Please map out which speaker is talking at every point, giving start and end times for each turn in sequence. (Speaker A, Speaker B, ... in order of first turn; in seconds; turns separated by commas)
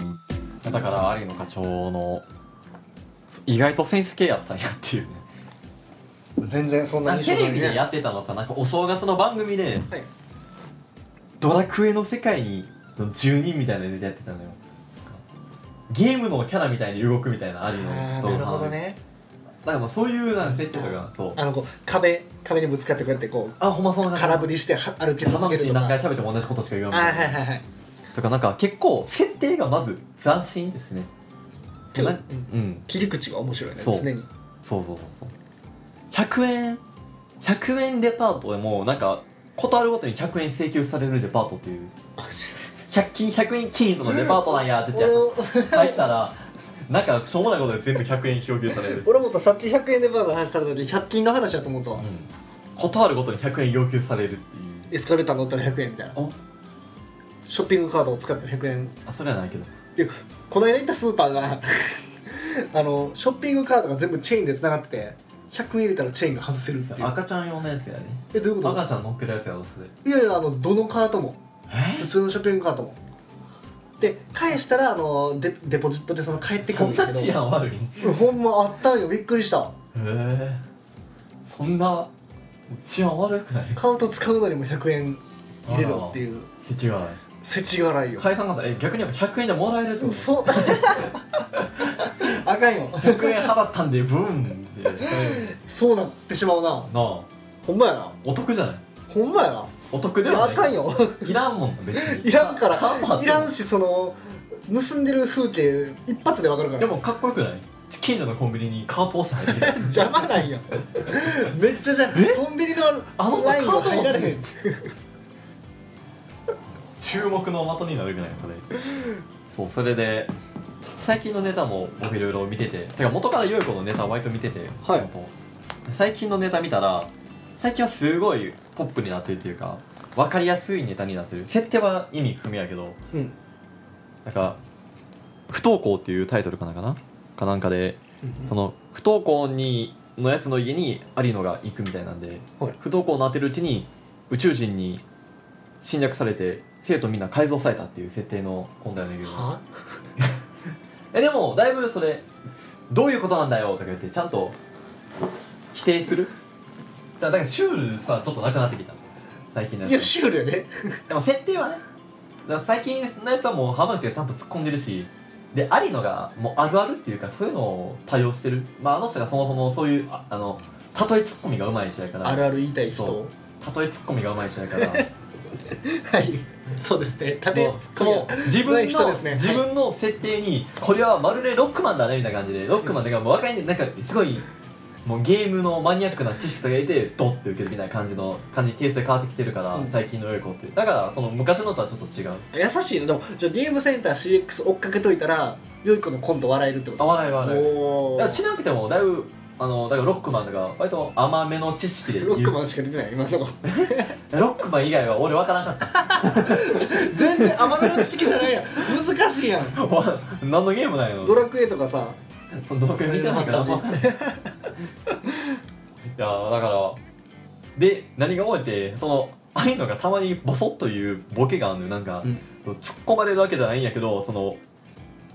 Speaker A: 0.6-2.3, Speaker A: 3.3-5.2, Speaker B: 6.4-7.9, Speaker A: 7.0-9.9, Speaker A: 11.4-15.2, Speaker A: 15.9-18.8, Speaker B: 17.7-19.0, Speaker A: 19.6-21.4, Speaker B: 20.4-26.0, Speaker A: 23.6-24.5, Speaker A: 25.2-27.4, Speaker B: 26.9-27.6, Speaker A: 28.1-31.1, Speaker A: 31.9-32.9, Speaker B: 31.9-34.3, Speaker A: 33.8-34.1, Speaker A: 34.6-35.3, Speaker A: 36.1-36.8, Speaker A: 37.4-41.9, Speaker B: 42.2-42.7, Speaker A: 42.9-49.1, Speaker B: 44.1-46.1, Speaker B: 48.8-52.1, Speaker A: 52.0-54.9, Speaker B: 54.9-56.2, Speaker B: 57.5-59.0, Speaker A: 59.1-59.7, Speaker B: 60.0-67.2, Speaker A: 66.8-69.9, Speaker B: 68.3-68.8, Speaker B: 70.0-71.4, Speaker A: 71.7-72.1, Speaker B: 72.0-73.0, Speaker B: 74.0-77.4, Speaker A: 76.6-78.2, Speaker B: 78.0-79.7, Speaker A: 79.9-80.6, Speaker A: 81.5-82.1, Speaker A: 82.7-83.8, Speaker B: 83.8-86.5, Speaker A: 85.7-87.2, Speaker B: 87.4-88.3, Speaker A: 88.2-91.1, Speaker B: 90.0-93.5, Speaker A: 93.0-95.5, Speaker B: 95.0-96.9, Speaker A: 96.9-97.3, Speaker B: 97.6-98.2, Speaker A: 98.2-98.8, Speaker B: 99.1-99.7, Speaker A: 99.9-103.5, Speaker B: 100.2-101.4, Speaker B: 101.9-107.0, Speaker A: 106.8-110.4, Speaker B: 109.5-114.9, Speaker A: 112.1-112.4, Speaker A: 113.2-114.4, Speaker A: 117.0-118.7, Speaker A: 119.5-120.3, Speaker A: 121.0-125.3, Speaker B: 124.8-125.1, Speaker A: 125.9-133.0, Speaker A: 134.2-134.6, Speaker A: 135.5-145.0, Speaker B: 138.2-138.5, Speaker A: 145.8-149.5, Speaker B: 149.2-149.8, Speaker A: 151.1-152.3, Speaker A: 152.9-154.6, Speaker A: 155.7-156.3, Speaker A: 157.2-160.1, Speaker B: 159.8-161.0, Speaker A: 161.1-161.8, Speaker A: 162.4-175.1, Speaker B: 172.2-173.3, Speaker B: 174.8-175.1, Speaker B: 175.7-179.7, Speaker A: 177.5-184.5, Speaker A: 185.1-192.5, Speaker B: 192.5-198.4, Speaker A: 197.0-202.6, Speaker B: 202.1-204.2, Speaker A: 203.7-208.9, Speaker B: 206.0-209.8, Speaker A: 209.6-211.5, Speaker B: 211.2-212.2, Speaker A: 212.5-214.2, Speaker B: 213.0-214.6, Speaker A: 216.2-217.0, Speaker A: 217.8-224.6